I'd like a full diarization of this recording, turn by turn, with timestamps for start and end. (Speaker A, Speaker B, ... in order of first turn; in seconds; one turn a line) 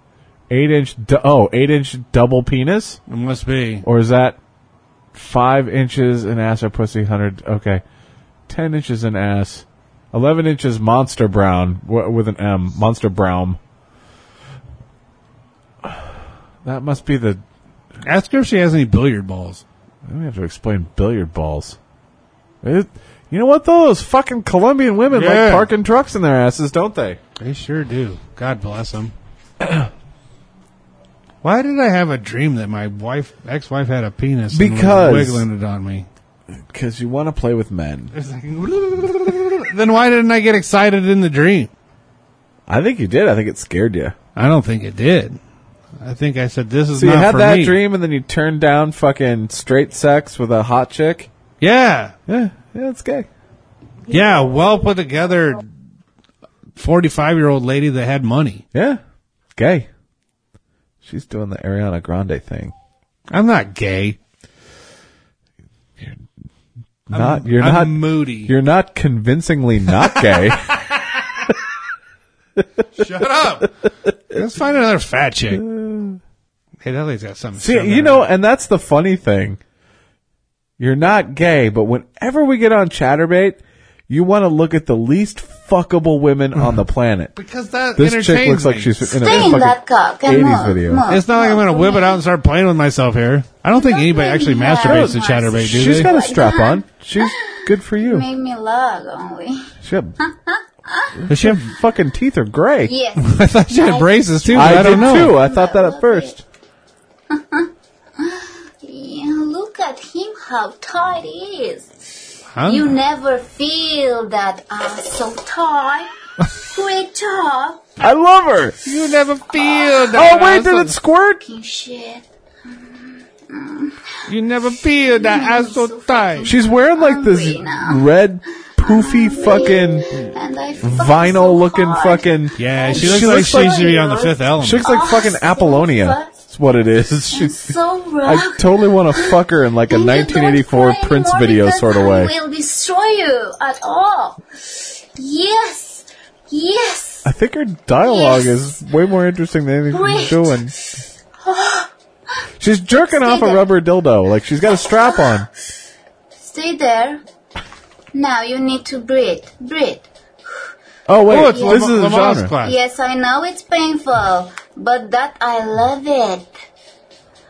Speaker A: 0.5-3.0
Speaker B: 3.1-3.9
Speaker A: 3.8-4.4
Speaker A: 5.1-7.8
Speaker A: 8.5-13.6
Speaker A: 15.8-17.4
Speaker B: 18.0-19.6
Speaker A: 20.1-21.8
Speaker A: 22.6-27.2
Speaker B: 25.1-25.7
Speaker B: 27.4-29.1
Speaker A: 29.6-29.9
Speaker B: 31.4-36.1
Speaker A: 34.5-35.5
Speaker A: 36.5-38.1
Speaker B: 38.1-41.7
Speaker A: 42.7-44.2
Speaker B: 44.4-45.4
Speaker B: 46.0-47.8
Speaker A: 47.0-51.3
Speaker B: 51.6-52.2
Speaker A: 52.3-53.3
Speaker B: 54.1-55.6
Speaker B: 56.8-58.6
Speaker A: 58.7-59.0
Speaker A: 59.5-59.9
Speaker A: 61.0-62.7
Speaker B: 63.3-64.2
Speaker A: 66.0-66.3
Speaker A: 67.1-70.8
Speaker B: 67.1-68.5
Speaker B: 70.0-71.5
Speaker B: 72.9-73.7
Speaker B: 74.3-75.7
Speaker A: 75.5-76.2
Speaker B: 76.8-78.3
Speaker A: 77.6-79.6
Speaker A: 80.8-87.3
Speaker B: 87.4-89.4
Speaker A: 88.0-91.1
Speaker C: 89.1-92.2
Speaker B: 91.1-96.1
Speaker C: 93.7-99.7
Speaker A: 94.8-98.3
Speaker A: 99.8-100.2
Speaker C: 100.2-101.2
Speaker A: 101.2-102.9
Speaker B: 101.3-101.6
Speaker C: 102.8-106.4
Speaker B: 103.2-105.4
Speaker A: 104.5-106.4
Speaker C: 107.3-118.0
Speaker B: 112.5-112.9
Speaker A: 118.0-118.8
Speaker B: 118.8-121.0
Speaker C: 119.6-120.1
Speaker A: 120.1-121.4
Speaker C: 121.4-124.2
Speaker B: 124.3-126.5
Speaker C: 125.0-128.1
Speaker A: 126.4-130.1
Speaker C: 128.8-136.3
Speaker A: 130.8-134.0
Speaker B: 132.6-134.9
Speaker A: 134.6-142.3
Speaker C: 137.3-147.3
Speaker A: 147.2-150.7
Speaker C: 148.0-148.7
Speaker C: 149.9-150.7
Speaker C: 151.4-151.9
Speaker A: 152.6-155.5
Speaker C: 152.9-153.7
Speaker C: 156.4-157.2
Speaker C: 158.1-160.6
Speaker A: 161.1-162.5
Speaker B: 161.3-162.8
Speaker C: 161.3-161.9
Speaker C: 162.6-166.5